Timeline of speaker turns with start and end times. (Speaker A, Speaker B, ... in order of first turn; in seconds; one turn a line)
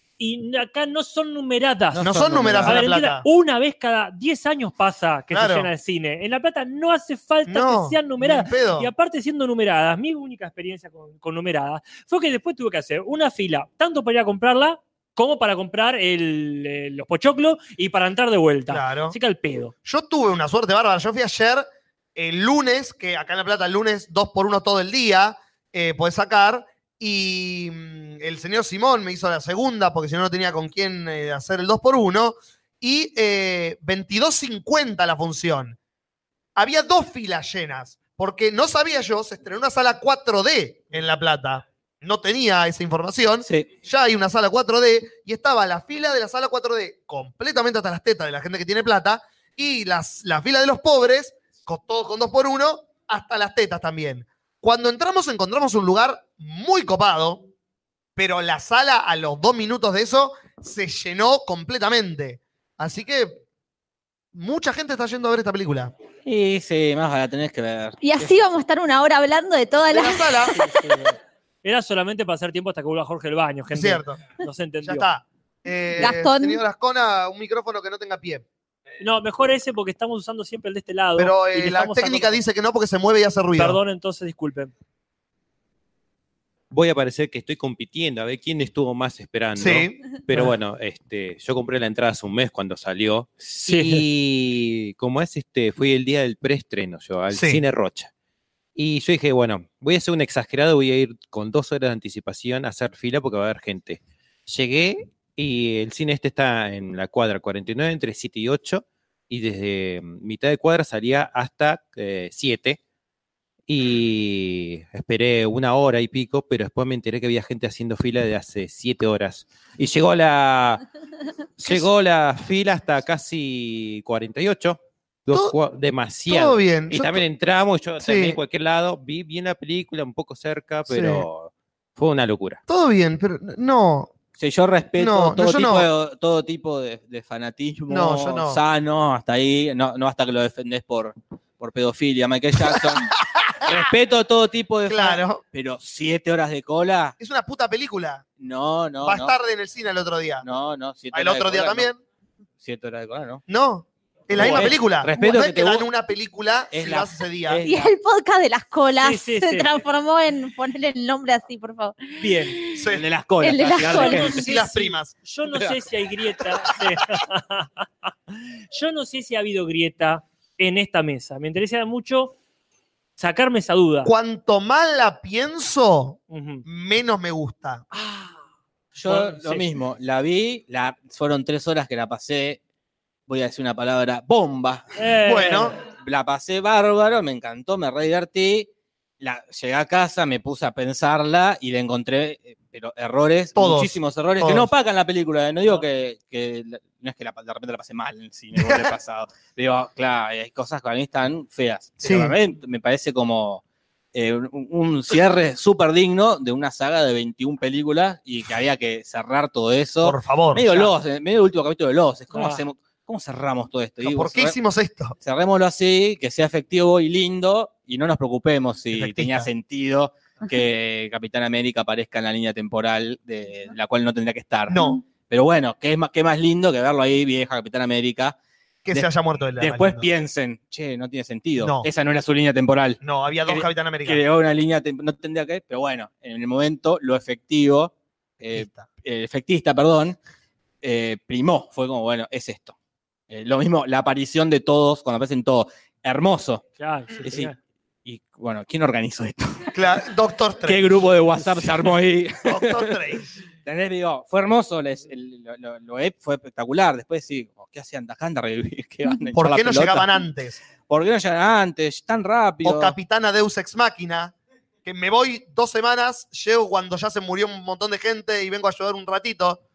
Speaker A: 0.2-2.1
Speaker B: 1.9-2.8
Speaker C: 2.0-3.2
Speaker A: 2.6-19.7
Speaker C: 5.3-5.7
Speaker C: 7.5-8.9
Speaker C: 18.7-19.1
Speaker C: 19.8-35.8
Speaker C: 36.5-57.4
Speaker C: 58.1-63.4
Speaker C: 64.3-65.9
Speaker B: 66.2-68.3
Speaker D: 68.0-70.4
Speaker C: 69.9-70.5
Speaker A: 70.5-75.0
Speaker C: 73.7-74.2
Speaker C: 74.8-78.4
Speaker D: 76.0-76.6
Speaker A: 79.0-82.4
Speaker C: 81.2-83.8
Speaker A: 83.5-84.7
Speaker E: 86.7-98.1
Speaker C: 89.6-90.0
Speaker A: 93.6-94.0
Speaker C: 97.3-97.6
Speaker E: 98.8-112.8
Speaker E: 113.7-120.8
Speaker E: 121.6-132.6
Speaker C: 125.3-125.5
Speaker C: 126.3-127.2
Speaker C: 128.0-128.4
Speaker C: 130.9-131.3
Speaker C: 132.7-134.1
Speaker B: 134.4-143.1
Speaker C: 135.0-135.9
Speaker C: 137.9-138.6
Speaker C: 142.6-143.8
Speaker B: 143.6-147.1
Speaker C: 144.9-145.4
Speaker C: 147.2-148.2
Speaker B: 148.4-149.3
Speaker C: 149.0-150.4
Speaker B: 150.4-151.9
Speaker C: 151.1-152.0
Speaker B: 152.6-153.4
Speaker C: 153.5-157.6
Speaker B: 154.3-155.9
Speaker A: 154.4-154.7
Speaker B: 156.7-157.9
Speaker D: 157.6-162.8
Speaker A: 159.0-159.7
Speaker A: 162.2-162.6
Speaker C: 162.7-163.0
Speaker B: 162.9-164.4
Speaker D: 163.4-164.4
Speaker A: 163.9-167.8
Speaker C: 164.2-165.1
Speaker B: 165.5-165.8
Speaker A: 168.7-172.3
Speaker A: 173.2-174.1
Speaker C: 174.0-177.8
Speaker A: 176.3-176.6
Speaker A: 177.9-178.4
Speaker B: 179.0-182.6
Speaker A: 179.0-179.7
Speaker B: 183.3-184.8
Speaker A: 184.9-185.7
Speaker C: 185.2-185.7
Speaker B: 185.8-188.7
Speaker B: 189.2-203.6
Speaker C: 193.6-194.7
Speaker C: 198.6-198.9
Speaker C: 202.0-202.4
Speaker B: 204.1-214.6
Speaker C: 210.0-210.9
Speaker A: 212.3-212.6
Speaker C: 214.0-215.1
Speaker B: 215.2-228.3
Speaker C: 218.9-219.5
Speaker C: 224.7-225.0
Speaker C: 228.8-230.1
Speaker B: 229.6-240.2
Speaker C: 231.6-231.9
Speaker C: 233.0-234.2
Speaker C: 238.5-238.9
Speaker B: 240.8-242.7
Speaker B: 243.3-246.6
Speaker A: 246.8-247.6
Speaker B: 247.2-247.5
Speaker B: 248.1-249.7
Speaker C: 249.7-250.9
Speaker B: 250.6-253.0
Speaker C: 252.4-253.3
Speaker B: 253.6-260.1
Speaker C: 259.3-260.6
Speaker B: 260.9-262.9
Speaker C: 262.6-264.3
Speaker C: 264.8-269.6